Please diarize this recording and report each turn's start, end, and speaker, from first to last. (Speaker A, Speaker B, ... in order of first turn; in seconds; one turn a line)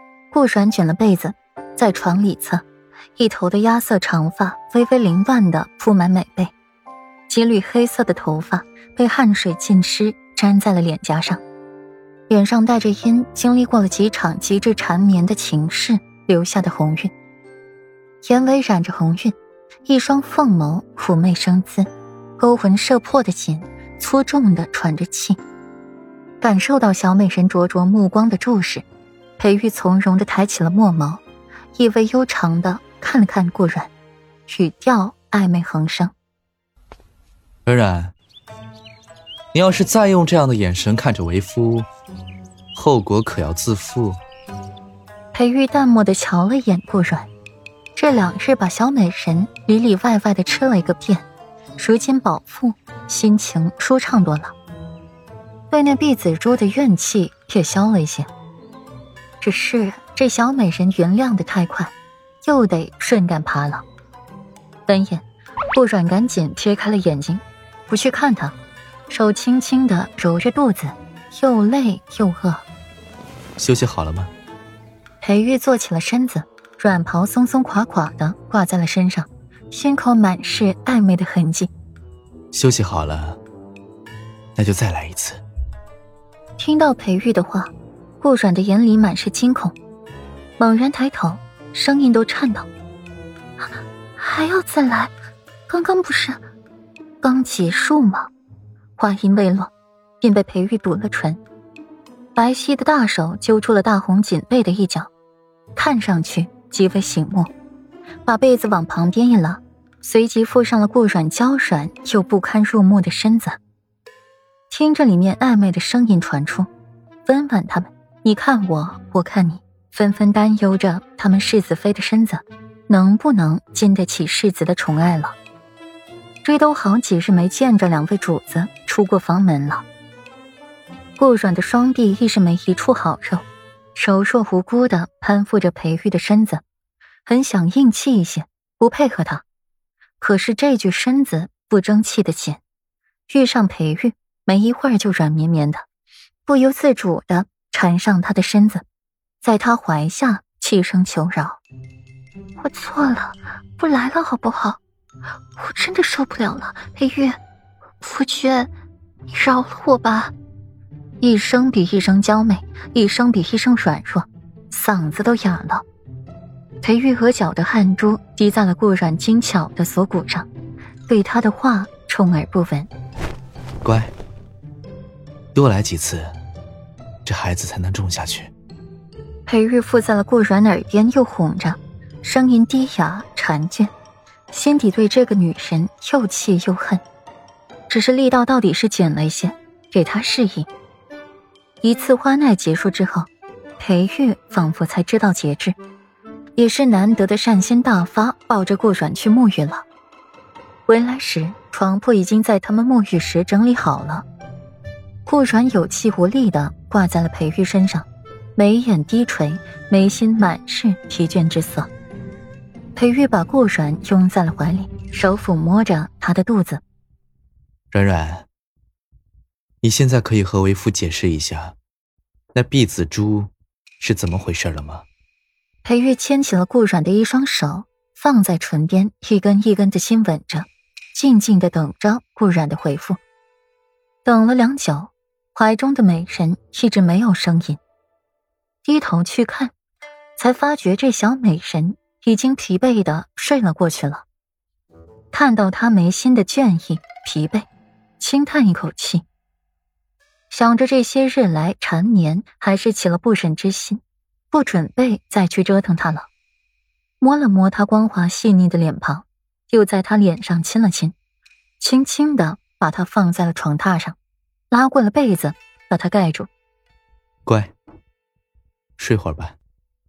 Speaker A: 0.3-2.6
Speaker A: 3.2-6.5
Speaker A: 7.3-11.4
Speaker A: 12.3-17.1
Speaker A: 18.2-19.3
Speaker A: 19.9-25.4
Speaker A: 26.4-28.8
Speaker A: 29.4-31.2
Speaker A: 31.7-33.9
Speaker A: 34.5-36.1
Speaker B: 37.6-38.1
Speaker B: 39.5-41.9
Speaker B: 42.7-44.2
Speaker A: 45.3-47.3
Speaker A: 48.0-54.5
Speaker A: 55.7-58.3
Speaker A: 59.4-63.8
Speaker A: 64.9-68.5
Speaker A: 69.1-72.6
Speaker B: 73.6-74.3
Speaker A: 75.2-81.7
Speaker B: 82.5-83.4
Speaker B: 84.5-85.4
Speaker A: 86.6-89.8
Speaker A: 90.6-92.7
Speaker A: 93.6-95.1
Speaker A: 95.7-96.4
Speaker A: 97.2-98.3
Speaker A: 99.0-101.4
Speaker A: 102.3-105.1
Speaker A: 105.8-107.5
Speaker A: 108.2-113.6
Speaker A: 114.7-116.7
Speaker A: 117.2-125.3
Speaker A: 126.4-129.8
Speaker A: 131.2-136.6
Speaker A: 137.2-139.4
Speaker A: 140.2-142.6
Speaker A: 143.3-145.8
Speaker A: 146.4-148.8
Speaker A: 149.4-151.6
Speaker A: 152.6-154.8
Speaker A: 155.5-157.4
Speaker A: 158.0-158.7
Speaker A: 159.3-160.3
Speaker A: 161.2-165.8
Speaker A: 166.8-170.5
Speaker A: 171.1-172.9
Speaker B: 173.8-174.1
Speaker B: 175.5-176.3
Speaker B: 177.2-178.5
Speaker A: 179.5-183.9
Speaker A: 184.5-187.0
Speaker A: 187.9-190.7
Speaker A: 191.8-195.8
Speaker A: 196.6-199.8
Speaker A: 200.9-204.2
Speaker A: 205.2-211.9
Speaker A: 212.9-216.8
Speaker B: 217.9-218.5
Speaker B: 219.8-221.8
Speaker B: 222.5-225.1
Speaker A: 225.8-233.2
Speaker A: 234.2-237.8
Speaker A: 238.8-239.7
Speaker A: 240.4-244.2
Speaker A: 245.3-247.7
Speaker A: 248.2-249.2
Speaker A: 250.5-256.3
Speaker A: 257.2-261.1
Speaker A: 261.8-264.1
Speaker A: 264.7-266.5
Speaker B: 267.4-267.7
Speaker B: 269.0-269.6